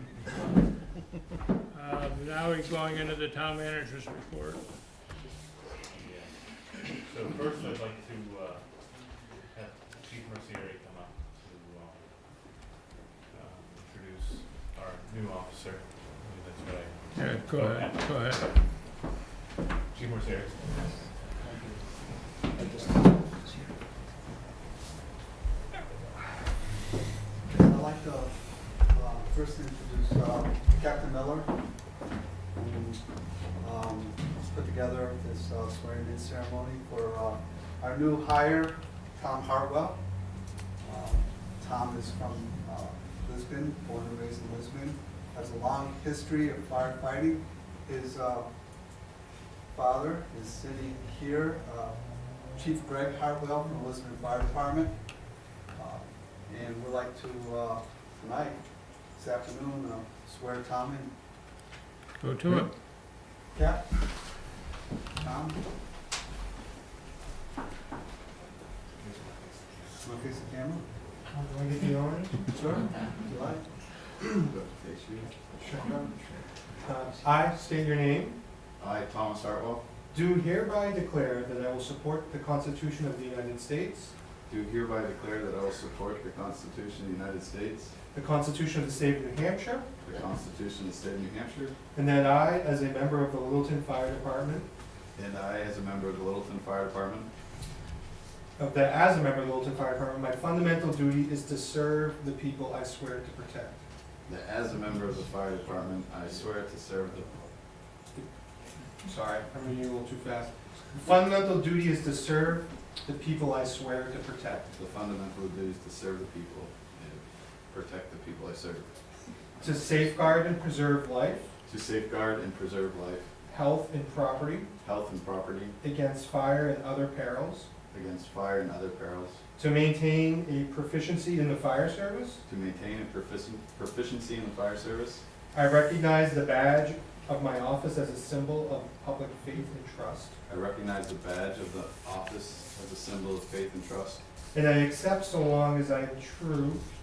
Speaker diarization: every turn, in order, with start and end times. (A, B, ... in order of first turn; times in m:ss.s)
0:01.7-0:04.6 A
0:05.9-0:06.3 B
0:07.0-0:08.6 B
0:09.5-0:12.0 B
0:13.3-0:18.6 B
0:17.1-0:18.4 A
0:19.9-0:21.0 B
0:21.4-0:21.7 C
0:22.6-0:23.6 D
0:27.5-0:28.3 C
0:28.9-0:31.5 C
0:32.5-0:33.0 C
0:33.6-0:40.0 C
0:40.8-0:48.5 C
0:49.7-0:52.0 C
0:52.5-0:55.0 C
0:55.7-0:58.6 C
0:59.2-1:01.1 C
1:02.2-1:02.7 A
1:03.5-1:03.8 C
1:05.2-1:05.6 C
1:09.0-1:09.9 B
1:10.0-1:10.8 C
1:11.3-1:12.4 D
1:12.5-1:13.6 C
1:14.5-1:15.3 E
1:15.6-1:15.9 D
1:15.8-1:16.3 C
1:16.8-1:18.4 D
1:18.8-1:19.8 E
1:20.1-1:24.1 D
1:24.5-1:27.9 E
1:28.1-1:29.9 D
1:30.0-1:31.8 E
1:31.9-1:34.7 D
1:35.2-1:37.3 E
1:38.6-1:43.8 D
1:44.2-1:47.3 E
1:49.0-1:54.7 D
1:54.7-1:58.9 E
1:59.6-2:01.5 D
2:01.6-2:03.3 E
2:03.5-2:04.7 D
2:04.8-2:05.8 E
2:05.8-2:07.7 D
2:07.9-2:09.4 E
2:09.6-2:12.4 D
2:12.5-2:15.2 E
2:15.5-2:20.3 D
2:20.5-2:24.2 E
2:24.5-2:26.8 D